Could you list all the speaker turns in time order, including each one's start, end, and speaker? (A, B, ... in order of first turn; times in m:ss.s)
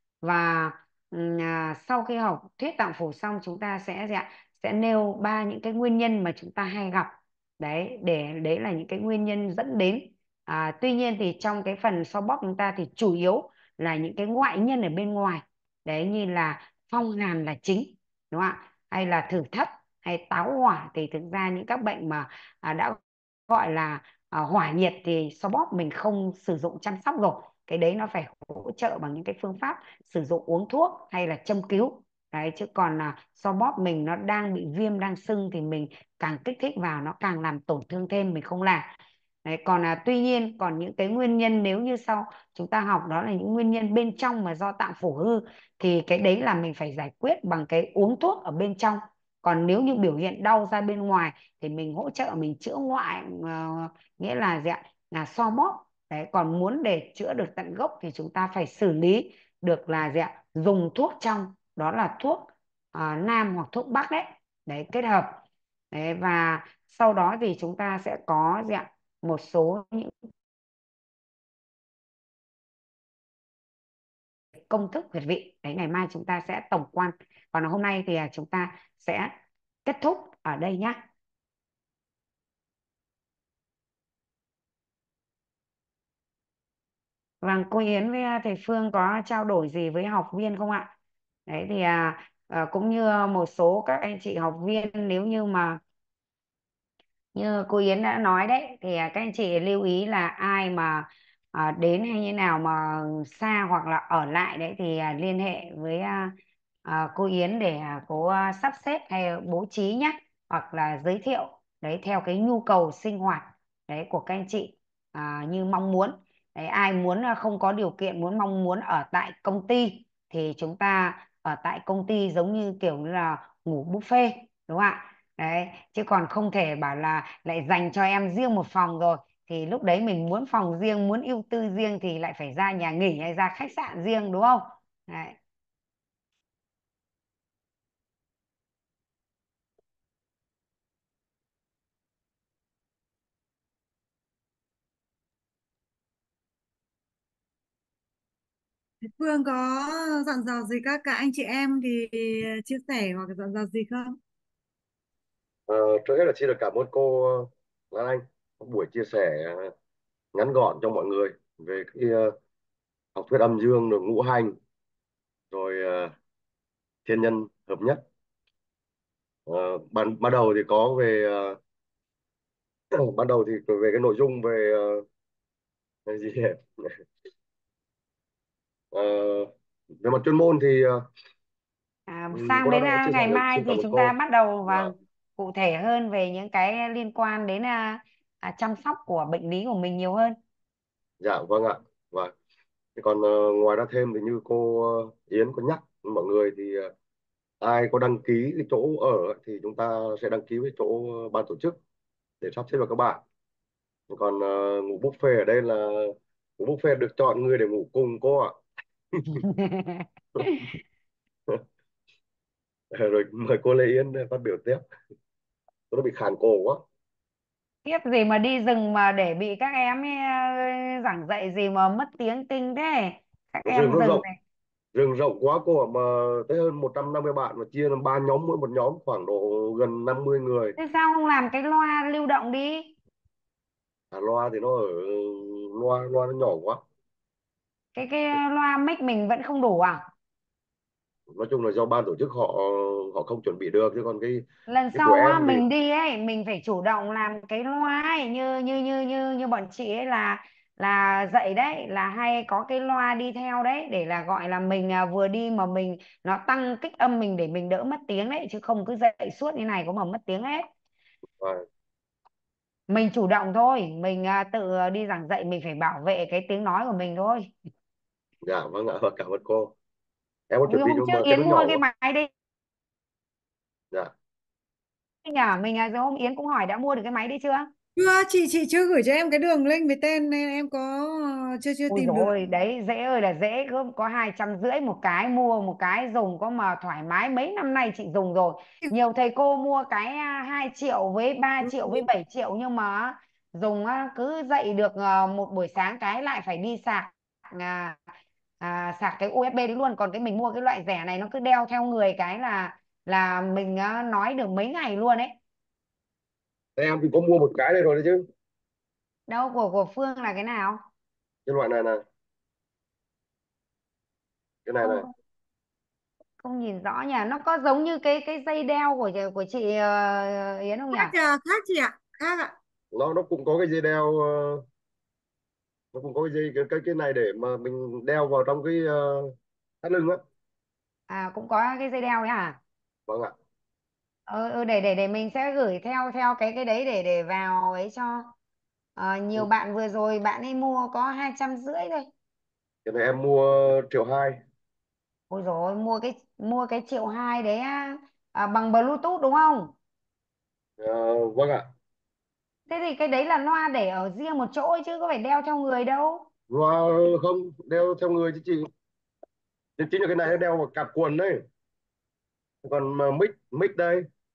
0:00.2-0:38.9 A
0:39.4-1:05.4 A
1:05.9-1:10.1 A
1:14.7-1:19.3 A
1:19.9-1:21.0 A
1:27.4-1:30.9 A
1:31.5-1:35.8 A
1:37.4-1:46.3 A
1:46.8-2:15.4 A
2:29.2-2:34.2 B
2:35.7-2:39.7 C
2:40.3-2:42.4 C
2:43.2-2:44.6 C
2:45.5-2:46.1 C
2:47.1-2:48.0 C
2:49.5-2:51.6 C
2:52.9-2:55.0 C
2:56.1-2:57.0 C
2:58.9-3:01.1 C
3:02.1-3:10.4 A
3:02.3-3:04.2 C
3:04.7-3:04.9 C
3:11.2-3:12.3 C
3:13.0-3:16.9 C
3:17.6-3:21.8 C
3:22.4-3:23.2 C
3:24.1-3:28.6 C
3:29.4-3:30.6 A
3:32.9-3:34.8 C
3:35.9-3:36.8 C
3:37.8-3:44.4 A
3:43.7-3:44.2 C
3:44.9-3:50.8 C
3:50.8-3:52.9 A
3:54.1-3:56.8 C
3:58.0-4:00.0 A
4:01.3-4:05.6 C
4:04.7-4:20.6 A
4:21.4-4:21.6 C
4:22.9-4:27.5 A
4:28.4-4:29.7 C
4:30.5-4:31.8 C
4:30.7-4:32.3 A
4:35.2-4:37.7 A
4:38.0-4:42.3 B
4:41.9-4:58.0 A
4:58.6-5:05.3 A
5:06.8-5:08.2 C
5:09.3-5:10.8 A
5:11.5-5:12.0 C
5:14.6-5:15.0 C
5:16.4-5:21.1 A
5:20.9-5:22.6 B
5:22.9-5:24.6 C
5:25.9-5:30.2 C
5:31.1-5:32.6 A
5:33.1-5:33.3 C
5:34.3-5:38.3 A
5:39.0-5:42.1 A
5:42.8-5:44.4 C
5:45.3-5:49.7 A
5:50.8-5:51.7 C
5:52.7-5:56.3 A
5:56.5-5:58.7 C
5:59.8-6:01.4 C
6:02.6-6:04.1 C